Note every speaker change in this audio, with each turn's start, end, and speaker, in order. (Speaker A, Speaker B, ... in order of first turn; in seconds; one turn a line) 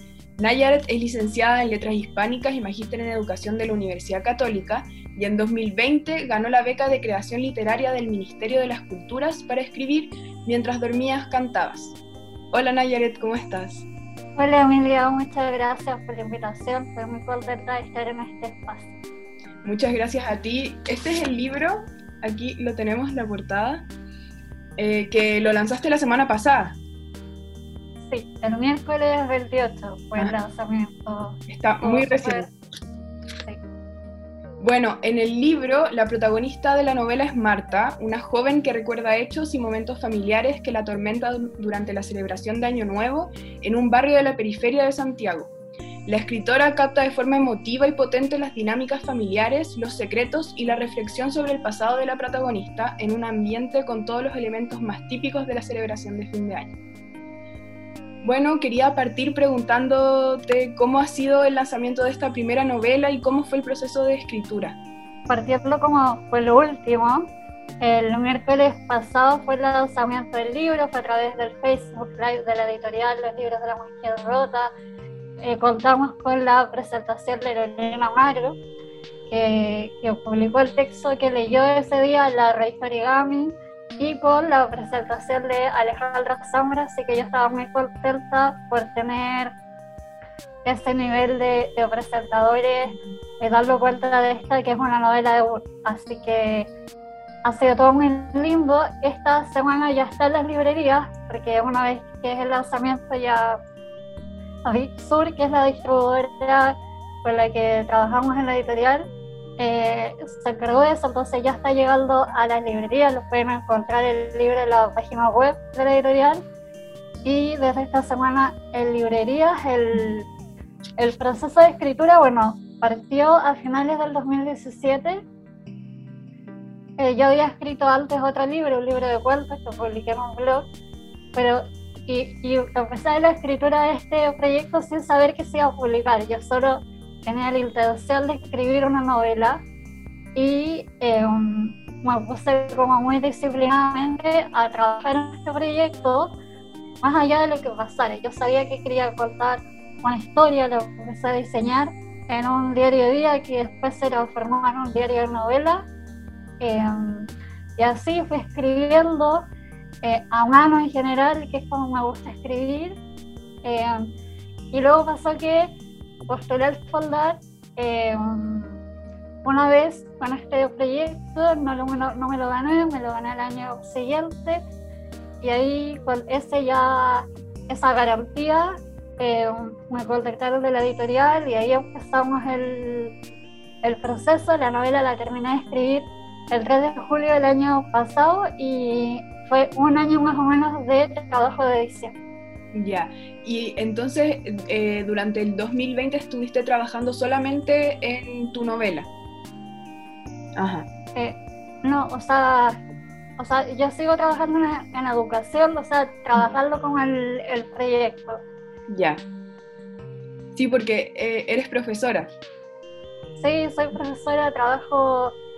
Speaker A: 0.4-12.0
Speaker A: 12.5-13.9
Speaker B: 14.4-18.9
Speaker A: 19.6-23.9
Speaker A: 24.8-26.8
Speaker B: 28.1-32.5
Speaker A: 31.5-32.5
Speaker A: 34.6-45.5
Speaker A: 46.0-56.7
Speaker A: 58.2-64.8
Speaker B: 65.3-67.3
Speaker B: 67.8-74.7
Speaker B: 75.4-78.6
Speaker B: 79.3-89.5
Speaker B: 90.6-96.7
Speaker B: 97.4-103.6
Speaker B: 104.6-116.4
Speaker B: 117.2-120.3
Speaker B: 121.0-125.2
Speaker B: 127.0-130.7
Speaker B: 131.3-139.6
Speaker B: 140.3-146.4
Speaker B: 147.0-155.9
Speaker B: 156.6-159.4
Speaker B: 160.0-163.0
Speaker B: 163.6-164.1
Speaker B: 164.7-165.7
Speaker B: 166.3-168.8
Speaker B: 169.4-174.6
Speaker B: 175.4-183.1
Speaker B: 183.8-192.2
Speaker A: 192.7-199.1
Speaker A: 200.6-200.8
Speaker B: 201.1-202.8
Speaker B: 203.4-208.4
Speaker A: 208.9-209.2
Speaker A: 210.5-212.3
Speaker B: 213.4-215.4